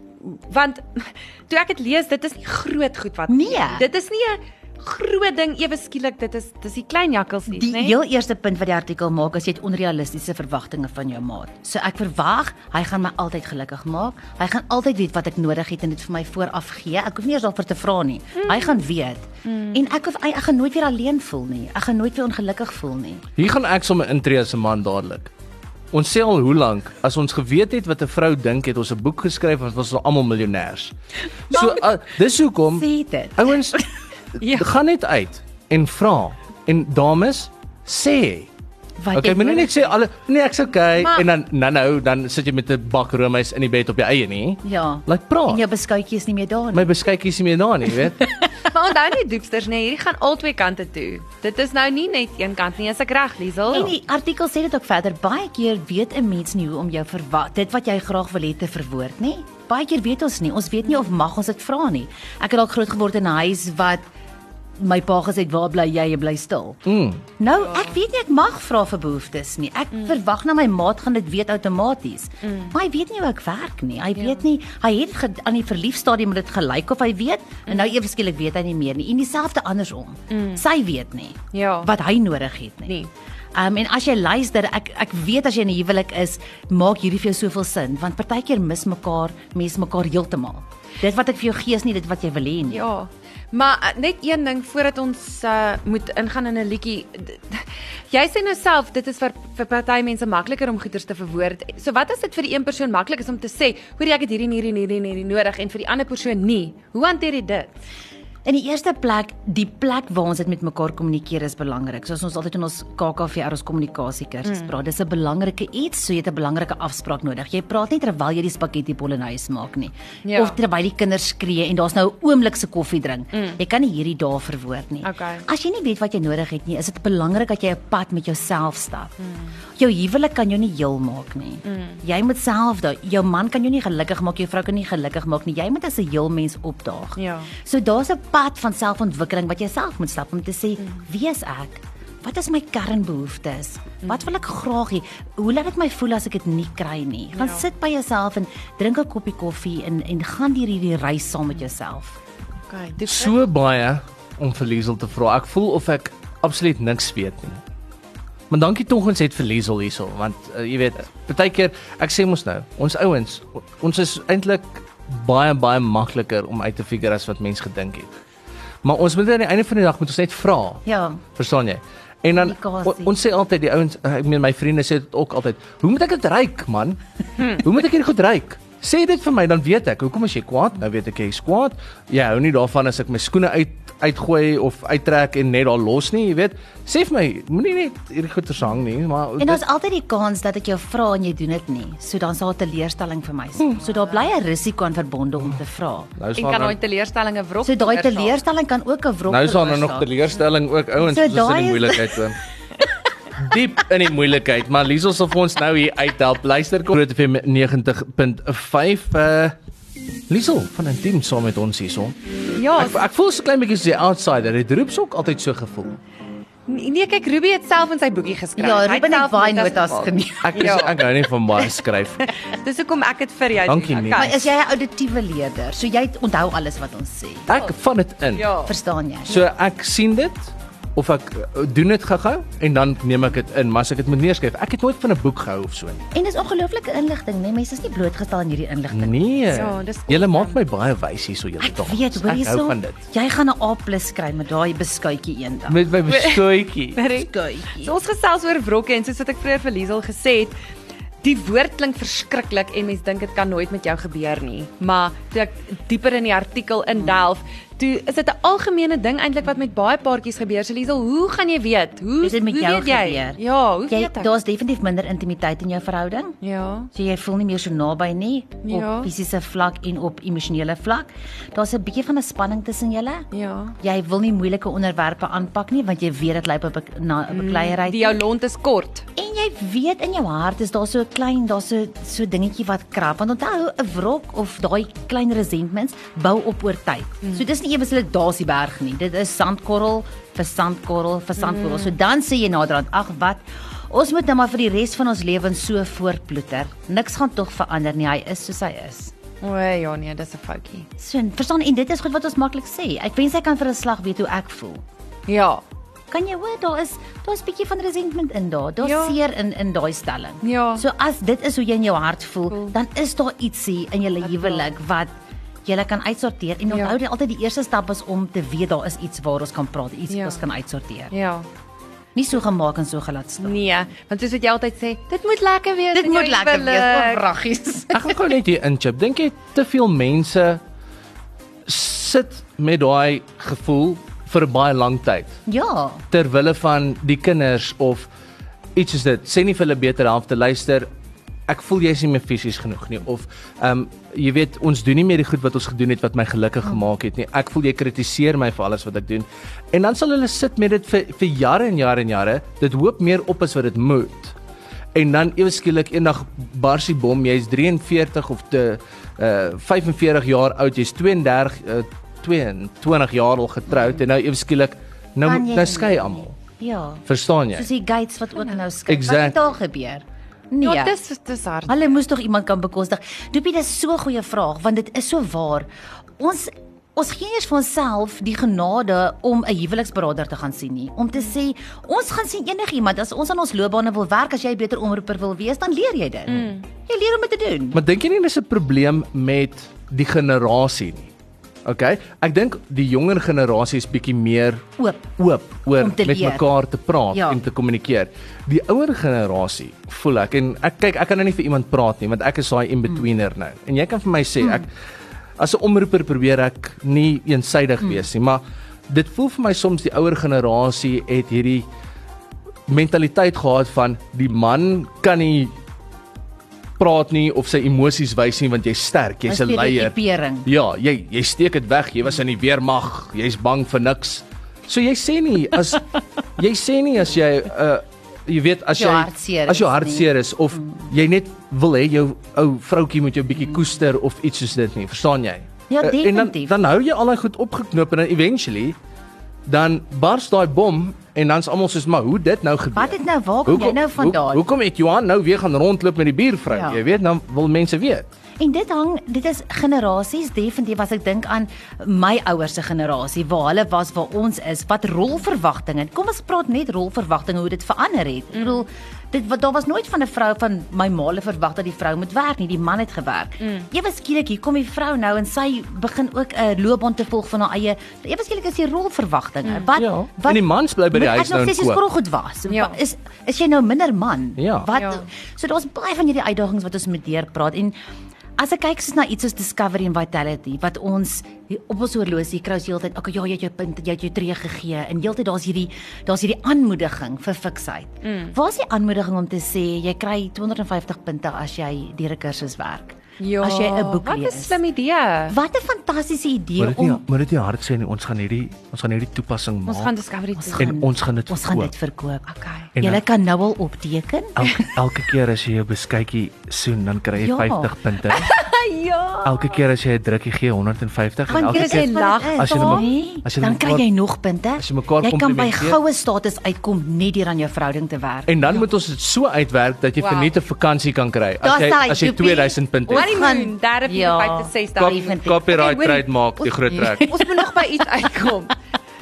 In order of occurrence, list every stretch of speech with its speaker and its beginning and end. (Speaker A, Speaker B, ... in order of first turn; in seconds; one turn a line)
Speaker A: 0.2-8.0
Speaker B: 3.3-3.9
Speaker B: 7.5-23.2
Speaker A: 19.5-19.8
Speaker C: 23.4-25.3
Speaker C: 25.9-30.9
Speaker C: 31.5-33.8
Speaker B: 31.5-31.8
Speaker B: 32.7-33.7
Speaker C: 34.4-38.5
Speaker A: 34.4-34.7
Speaker B: 39.0-39.9
Speaker C: 39.1-45.6
Speaker A: 41.0-41.3
Speaker B: 44.6-46.9
Speaker C: 46.7-48.3
Speaker A: 48.6-53.9
Speaker B: 53.7-64.0
Speaker B: 64.8-66.8
Speaker C: 66.8-67.2
Speaker B: 67.4-83.0
Speaker A: 67.6-68.0
Speaker A: 72.4-72.8
Speaker A: 74.2-74.4
Speaker A: 77.7-77.9
Speaker A: 80.3-80.6
Speaker A: 81.5-81.9
Speaker B: 83.5-92.8
Speaker A: 92.7-107.7
Speaker B: 108.4-129.1
Speaker A: 114.4-114.7
Speaker A: 120.2-120.6
Speaker A: 123.3-123.6
Speaker A: 125.0-125.5
Speaker A: 129.2-129.6
Speaker B: 129.8-152.2
Speaker A: 131.6-132.0
Speaker A: 137.2-137.5
Speaker A: 147.3-147.7
Speaker A: 152.7-153.4
Speaker C: 153.0-157.6
Speaker C: 158.5-168.2
Speaker C: 168.8-189.6
Speaker B: 170.8-171.2
Speaker B: 172.4-173.1
Speaker B: 189.4-196.1
Speaker C: 196.2-196.8
Speaker A: 196.3-198.3
Speaker B: 197.6-200.1
Speaker C: 199.3-202.4
Speaker B: 201.0-202.3
Speaker C: 203.4-209.6
Speaker C: 210.3-212.2
Speaker A: 212.6-213.1
Speaker C: 212.7-216.0
Speaker A: 216.7-221.1
Speaker B: 218.6-220.8
Speaker C: 220.4-222.3
Speaker A: 222.5-224.4
Speaker C: 223.6-224.3
Speaker B: 224.1-227.5
Speaker C: 227.5-228.5
Speaker A: 228.3-228.7
Speaker B: 228.7-229.5
Speaker C: 229.3-236.1
Speaker B: 236.1-239.7
Speaker C: 238.9-243.0
Speaker A: 239.5-240.6
Speaker B: 241.6-245.9
Speaker C: 245.7-247.0
Speaker A: 246.1-250.5
Speaker B: 247.1-247.9
Speaker A: 251.2-264.3
Speaker B: 262.2-266.4
Speaker A: 266.4-266.9
Speaker B: 266.9-273.3
Speaker A: 268.6-269.1
Speaker A: 273.3-273.8
Speaker B: 273.8-278.2
Speaker A: 277.3-279.0
Speaker B: 279.1-299.1
Speaker A: 291.4-291.9
Speaker A: 299.4-300.9
Speaker B: 301.0-304.8
Speaker A: 305.3-305.6
Speaker B: 306.1-315.1
Speaker A: 308.8-309.2
Speaker A: 310.4-310.8
Speaker A: 312.5-312.7
Speaker A: 314.2-314.8
Speaker B: 315.6-321.1
Speaker A: 316.7-317.0
Speaker A: 320.1-320.4
Speaker A: 321.1-321.5
Speaker B: 322.1-323.6
Speaker A: 323.4-327.2
Speaker B: 325.9-328.1
Speaker C: 327.9-330.6
Speaker C: 331.6-335.4
Speaker B: 335.5-336.0
Speaker C: 336.1-338.1
Speaker C: 338.7-340.9
Speaker C: 341.5-354.4
Speaker C: 354.9-366.4
Speaker B: 365.2-370.9
Speaker C: 367.1-367.7
Speaker C: 368.9-369.4
Speaker A: 370.6-371.8
Speaker B: 371.7-375.7
Speaker B: 376.2-387.8
Speaker A: 386.3-386.6
Speaker C: 387.7-391.1
Speaker C: 391.6-404.7
Speaker B: 394.8-395.1
Speaker B: 395.7-396.5
Speaker B: 397.1-397.4
Speaker B: 404.4-404.6
Speaker C: 405.4-411.6
Speaker C: 412.7-415.5
Speaker C: 416.8-425.8
Speaker B: 419.3-420.5
Speaker C: 426.4-438.8
Speaker B: 428.7-430.9
Speaker B: 435.7-436.5
Speaker C: 439.4-448.1
Speaker B: 442.7-444.4
Speaker B: 446.5-446.8
Speaker B: 448.4-477.7
Speaker A: 458.3-458.6
Speaker A: 463.4-463.7
Speaker A: 469.4-469.7
Speaker C: 469.8-471.8
Speaker A: 472.5-472.8
Speaker C: 474.4-474.7
Speaker A: 474.7-475.0
Speaker B: 478.4-494.6
Speaker A: 488.0-488.4
Speaker A: 493.2-495.4
Speaker B: 495.3-497.0
Speaker C: 496.6-499.9
Speaker A: 499.6-500.8
Speaker B: 500.4-504.3
Speaker C: 500.5-501.7
Speaker A: 502.3-502.7
Speaker C: 502.8-503.0
Speaker C: 504.4-508.3
Speaker B: 507.2-507.8
Speaker A: 508.1-509.6
Speaker C: 509.2-513.9
Speaker B: 511.3-518.6
Speaker A: 511.5-512.8
Speaker C: 514.6-515.8
Speaker C: 518.3-523.2
Speaker A: 520.0-520.3
Speaker B: 521.4-525.6
Speaker A: 522.9-528.5
Speaker C: 524.8-527.2
Speaker B: 526.7-527.7